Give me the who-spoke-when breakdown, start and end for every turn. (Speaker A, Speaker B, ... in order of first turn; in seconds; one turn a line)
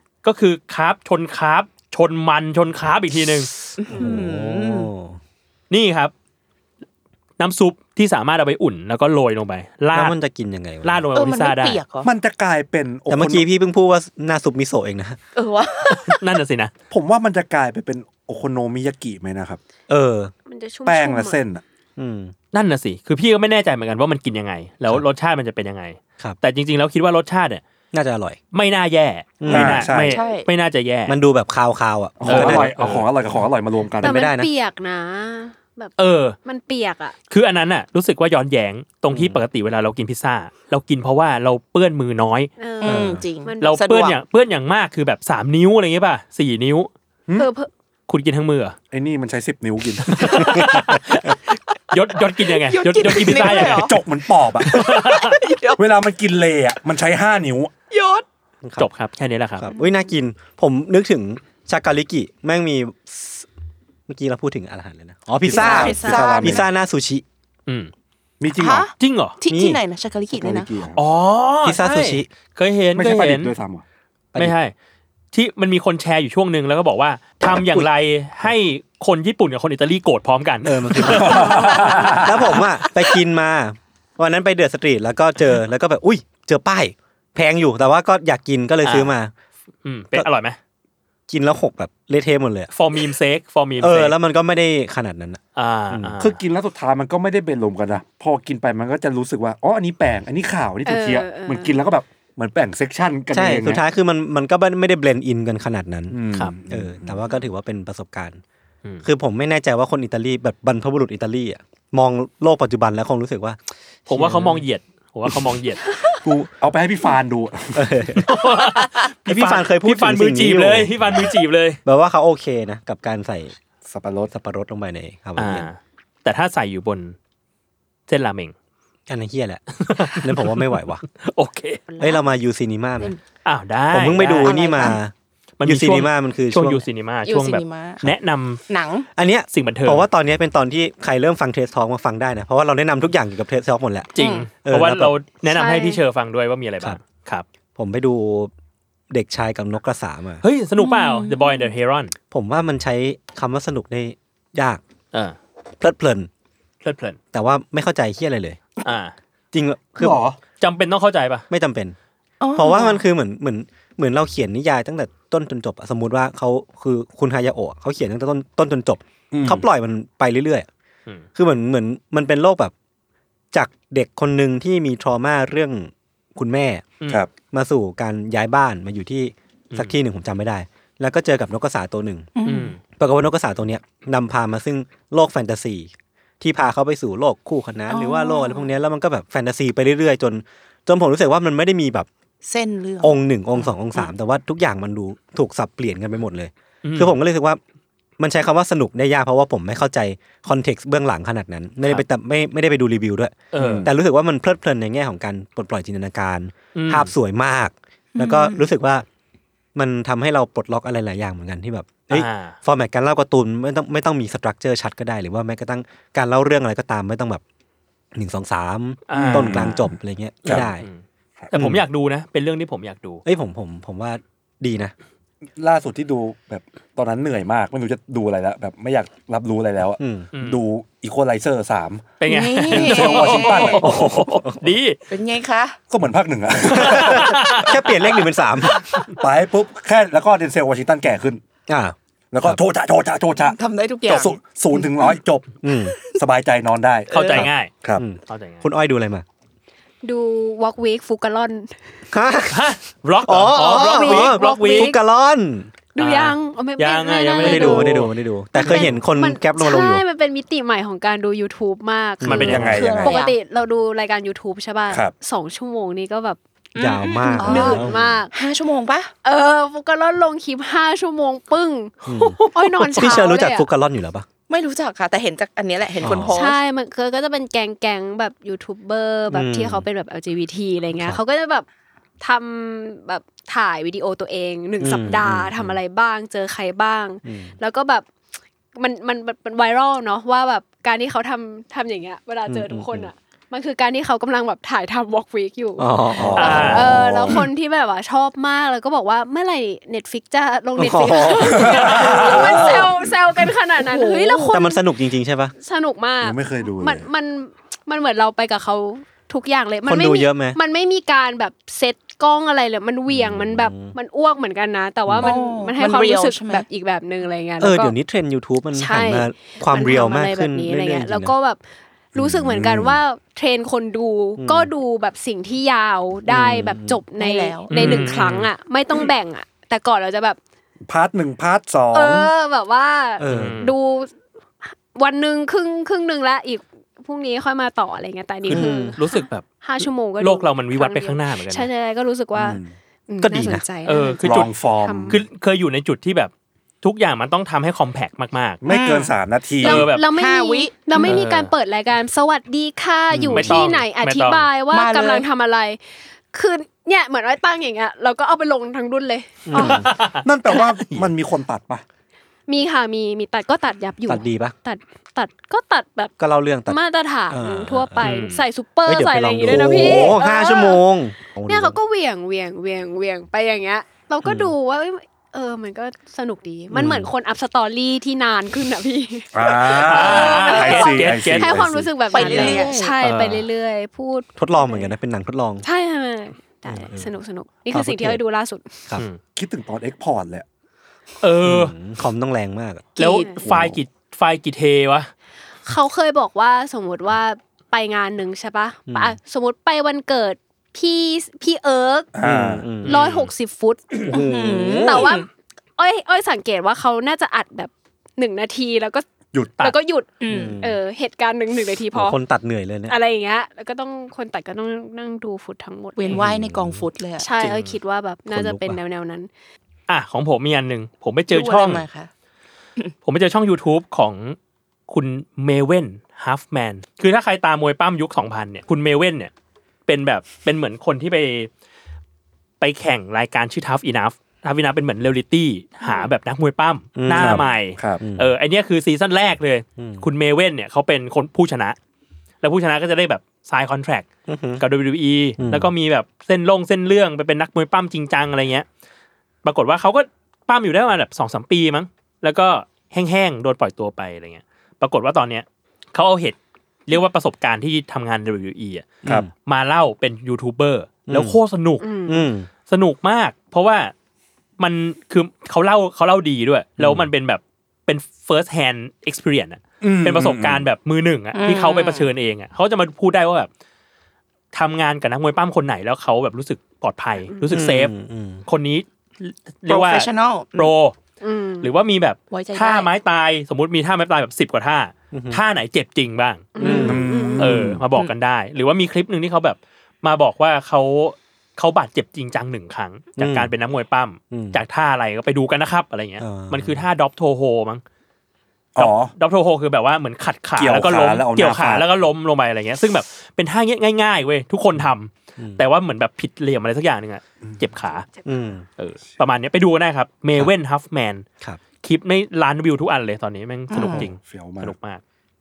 Speaker A: 0.2-3.5
Speaker B: 3.8-4.9
Speaker C: 3.9-5.2
Speaker A: 5.7-6.1
Speaker A: 7.4-10.2
Speaker C: 9.9-11.1
Speaker A: 10.8-11.8
Speaker B: 11.1-12.1
Speaker D: 12.0-13.5
Speaker C: 13.1-15.2
Speaker B: 15.4-16.2
Speaker A: 15.9-16.7
Speaker D: 16.9-19.6
Speaker C: 19.9-20.3
Speaker E: 20.5-21.4
Speaker D: 20.9-21.6
Speaker C: 22.0-22.3
Speaker A: 22.5-27.6
Speaker C: 27.9-28.4
Speaker A: 28.5-31.2
Speaker C: 29.4-29.9
Speaker D: 29.5-30.2
Speaker B: 30.1-30.5
Speaker C: 31.1-33.0
Speaker D: 32.2-34.2
Speaker A: 32.2-33.0
Speaker C: 34.0-34.5
Speaker E: 34.0-35.9
Speaker A: 36.0-36.4
Speaker E: 36.5-37.1
Speaker A: 37.3-42.5
Speaker C: 39.1-39.4
Speaker E: 42.6-43.9
Speaker B: 42.8-44.2
Speaker C: 42.9-43.2
Speaker A: 43.6-46.9
Speaker E: 47.3-47.7
Speaker A: 48.1-48.8
Speaker D: 48.9-50.8
Speaker A: 50.1-54.0
Speaker C: 50.2-51.3
Speaker B: 52.5-54.0
Speaker D: 53.3-54.9
Speaker A: 54.7-55.4
Speaker B: 54.7-55.8
Speaker D: 55.8-57.7
Speaker B: 57.9-58.2
Speaker C: 58.6-58.9
Speaker A: 58.8-59.7
Speaker C: 59.6-63.5
Speaker C: 64.1-67.2
Speaker D: 65.4-66.7
Speaker B: 65.5-66.6
Speaker E: 65.7-66.2
Speaker D: 68.4-68.9
Speaker B: 68.5-70.7
Speaker A: 69.0-69.4
Speaker C: 69.5-69.8
Speaker D: 70.3-71.0
Speaker A: 71.0-73.5
Speaker C: 71.6-72.3
Speaker D: 73.0-73.8
Speaker A: 74.4-74.7
Speaker A: 75.3-82.6
Speaker C: 77.5-77.9
Speaker C: 80.6-89.3
Speaker D: 81.0-82.6
Speaker A: 88.8-89.1
Speaker A: 89.8-90.6
Speaker C: 91.3-92.7
Speaker A: 92.7-94.2
Speaker C: 93.8-95.4
Speaker A: 95.6-96.4
Speaker D: 96.2-103.8
Speaker E: 100.8-101.8
Speaker C: 103.3-108.4
Speaker D: 106.1-107.2
Speaker C: 109.0-114.7
Speaker A: 114.1-115.9
Speaker D: 116.2-118.3
Speaker C: 117.8-118.3
Speaker A: 118.2-121.8
Speaker C: 119.3-121.0
Speaker C: 121.8-123.5
Speaker D: 123.9-124.3
Speaker C: 124.3-125.7
Speaker A: 125.4-127.2
Speaker A: 128.1-128.5
Speaker C: 129.1-131.0
Speaker A: 129.8-131.8
Speaker B: 131.9-132.2
Speaker C: 132.0-133.1
Speaker A: 133.4-134.9
Speaker C: 133.9-135.1
Speaker B: 134.2-135.0
Speaker A: 135.6-138.6
Speaker C: 135.6-136.8
Speaker B: 137.2-138.0
Speaker B: 138.7-139.1
Speaker C: 139.2-144.1
Speaker A: 139.5-140.1
Speaker A: 144.2-147.4
Speaker B: 144.2-144.5
Speaker C: 144.6-145.1
Speaker E: 145.5-146.0
Speaker C: 147.8-148.5
Speaker C: 149.1-150.4
Speaker A: 150.4-152.1
Speaker B: 150.8-151.5
Speaker C: 152.3-154.8
Speaker C: 155.8-156.3
Speaker A: 156.8-157.2
Speaker C: 157.3-158.6
Speaker A: 158.8-159.2
Speaker C: 159.5-160.2
Speaker D: 160.0-160.4
Speaker A: 160.6-161.4
Speaker C: 161.5-161.9
Speaker B: 162.4-163.0
Speaker C: 162.6-170.7
Speaker D: 169.3-169.7
Speaker C: 171.4-172.7
Speaker C: 173.5-176.8
Speaker C: 177.5-182.3
Speaker B: 182.3-182.8
Speaker A: 182.5-182.8
Speaker C: 183.0-192.1
Speaker B: 187.9-188.7
Speaker B: 192.4-194.1
Speaker C: 193.0-197.6
Speaker A: 196.8-197.2
Speaker C: 198.2-209.1
Speaker A: 203.5-203.9
Speaker D: 203.6-203.9
Speaker A: 206.8-207.1
Speaker B: 208.2-208.7
Speaker C: 209.8-217.4
Speaker A: 212.1-212.6
Speaker C: 218.2-220.9
Speaker A: 219.1-219.9
Speaker D: 219.2-219.9
Speaker A: 220.5-223.2
Speaker C: 221.5-221.8
Speaker C: 223.3-224.9
Speaker D: 225.6-234.1
Speaker C: 230.0-230.3
Speaker A: 230.3-230.6
Speaker A: 232.2-235.0
Speaker B: 232.3-233.9
Speaker C: 233.8-234.6
Speaker B: 235.1-235.8
Speaker D: 235.9-237.8
Speaker A: 236.7-237.8
Speaker C: 236.7-238.9
Speaker D: 238.9-241.4
Speaker C: 241.7-242.6
Speaker D: 242.3-245.6
Speaker B: 243.4-244.4
Speaker C: 245.6-246.0
Speaker B: 245.9-246.2
Speaker D: 246.1-248.0
Speaker A: 247.1-247.7
Speaker B: 247.1-247.5
Speaker C: 248.0-249.2
Speaker A: 248.3-248.6
Speaker E: 250.0-251.8
Speaker C: 252.1-252.7
Speaker A: 252.5-254.9
Speaker C: 253.2-255.7
Speaker E: 253.7-255.0
Speaker E: 255.9-266.4
Speaker A: 256.0-258.1
Speaker C: 257.4-260.0
Speaker C: 262.2-262.9
Speaker A: 262.3-262.7
Speaker D: 262.5-263.2
Speaker B: 262.6-263.4
Speaker B: 266.8-269.1
Speaker C: 266.8-268.1
Speaker E: 267.0-268.3
Speaker E: 269.2-273.7
Speaker C: 272.1-274.3
Speaker B: 274.5-276.6
Speaker C: 276.0-276.4
Speaker E: 276.2-281.7
Speaker C: 279.3-279.9
Speaker E: 282.2-288.1
Speaker C: 284.8-285.8
Speaker C: 287.2-287.5
Speaker E: 288.8-304.8
Speaker C: 292.5-293.1
Speaker C: 295.8-297.4
Speaker D: 296.1-297.5
Speaker A: 296.4-297.0
Speaker C: 300.8-302.9
Speaker D: 301.4-303.1
Speaker B: 303.8-304.6
Speaker C: 304.5-305.5
Speaker E: 305.6-318.0
Speaker D: 306.2-307.1
Speaker C: 309.9-310.6
Speaker C: 313.1-313.9
Speaker C: 315.1-315.4
Speaker B: 315.2-316.7
Speaker C: 317.6-321.3
Speaker E: 318.7-321.6
Speaker E: 322.1-330.4
Speaker C: 322.2-323.0
Speaker C: 324.4-324.7
Speaker C: 326.3-327.0
Speaker B: 327.2-328.2
Speaker A: 327.7-328.5
Speaker D: 330.9-332.3
Speaker E: 331.9-334.1
Speaker C: 333.2-333.6
Speaker A: 333.3-333.8
Speaker E: 334.6-345.2
Speaker C: 338.5-339.0
Speaker A: 338.5-339.4
Speaker A: 340.2-341.7
Speaker D: 342.4-342.7
Speaker C: 343.2-343.6
Speaker A: 343.9-344.5
Speaker D: 344.2-345.2
Speaker A: 345.1-346.3
Speaker A: 346.8-348.6
Speaker D: 348.6-349.9
Speaker B: 348.7-349.1
Speaker A: 349.6-350.0
Speaker E: 349.6-355.8
Speaker B: 349.8-351.1
Speaker A: 350.9-351.5
Speaker C: 353.1-353.4
Speaker D: 353.3-353.6
Speaker A: 353.3-354.5
Speaker B: 354.7-355.3
Speaker E: 356.3-359.9
Speaker C: 359.5-359.9
Speaker A: 359.6-361.1
Speaker D: 360.2-361.8
Speaker E: 362.5-366.1
Speaker C: 364.1-364.5
Speaker C: 366.2-368.1
Speaker E: 366.7-370.9
Speaker A: 368.0-368.4
Speaker C: 368.9-371.8
Speaker D: 369.5-370.2
Speaker E: 371.5-384.9
Speaker C: 374.2-374.5
Speaker C: 376.7-377.1
Speaker D: 379.3-381.9
Speaker A: 379.7-381.7
Speaker B: 382.1-383.0
Speaker A: 382.2-383.4
Speaker C: 384.4-385.6
Speaker E: 385.6-388.7
Speaker C: 386.7-387.1
Speaker C: 387.7-388.2
Speaker D: 389.4-390.5
Speaker A: 391.2-391.8
Speaker C: 391.4-392.9
Speaker E: 393.0-393.5
Speaker A: 393.0-395.1
Speaker D: 393.4-393.8
Speaker E: 395.7-402.1
Speaker C: 398.9-399.2
Speaker D: 402.2-402.7
Speaker C: 402.2-402.9
Speaker A: 402.8-403.3
Speaker E: 402.9-409.0
Speaker C: 404.1-405.1
Speaker B: 404.1-405.3
Speaker D: 409.3-409.6
Speaker E: 409.6-412.2
Speaker B: 410.2-410.6
Speaker C: 410.3-410.8
Speaker C: 411.9-413.0
Speaker E: 412.9-416.2
Speaker B: 416.0-417.3
Speaker C: 416.1-416.9
Speaker E: 417.2-419.3
Speaker A: 417.4-417.7
Speaker C: 418.3-418.8
Speaker A: 419.9-421.9
Speaker B: 421.3-422.1
Speaker A: 423.1-424.4
Speaker A: 424.9-429.3
Speaker A: 429.9-431.5
Speaker A: 432.6-441.8
Speaker E: 435.8-436.1
Speaker C: 437.0-437.4
Speaker D: 437.1-438.0
Speaker C: 438.0-438.3
Speaker C: 439.8-440.1
Speaker A: 442.4-444.1
Speaker C: 444.3-444.6
Speaker A: 444.6-448.7
Speaker C: 445.4-445.7
Speaker A: 449.4-456.4
Speaker A: 456.9-461.9
Speaker C: 459.0-459.3
Speaker C: 461.1-461.4
Speaker E: 461.8-462.3
Speaker C: 462.1-462.5
Speaker A: 462.7-463.9
Speaker A: 464.6-473.5
Speaker C: 466.8-467.1
Speaker D: 469.8-470.6
Speaker B: 471.3-472.1
Speaker A: 474.5-477.9
Speaker C: 477.5-478.4
Speaker A: 478.5-480.9
Speaker B: 479.7-480.7
Speaker E: 481.2-481.7
Speaker A: 481.6-497.8
Speaker B: 482.3-482.9
Speaker C: 485.1-485.4
Speaker E: 486.6-487.4
Speaker D: 486.6-487.7
Speaker C: 486.6-487.8
Speaker C: 493.2-493.5
Speaker C: 494.3-494.6
Speaker C: 496.2-496.9
Speaker D: 498.8-499.1
Speaker A: 498.8-508.1
Speaker D: 500.6-501.8
Speaker C: 505.4-505.6
Speaker E: 507.9-508.3
Speaker C: 508.3-508.7
Speaker A: 508.8-511.3
Speaker A: 511.8-515.0
Speaker B: 513.7-514.1
Speaker C: 513.8-514.1
Speaker D: 514.1-514.7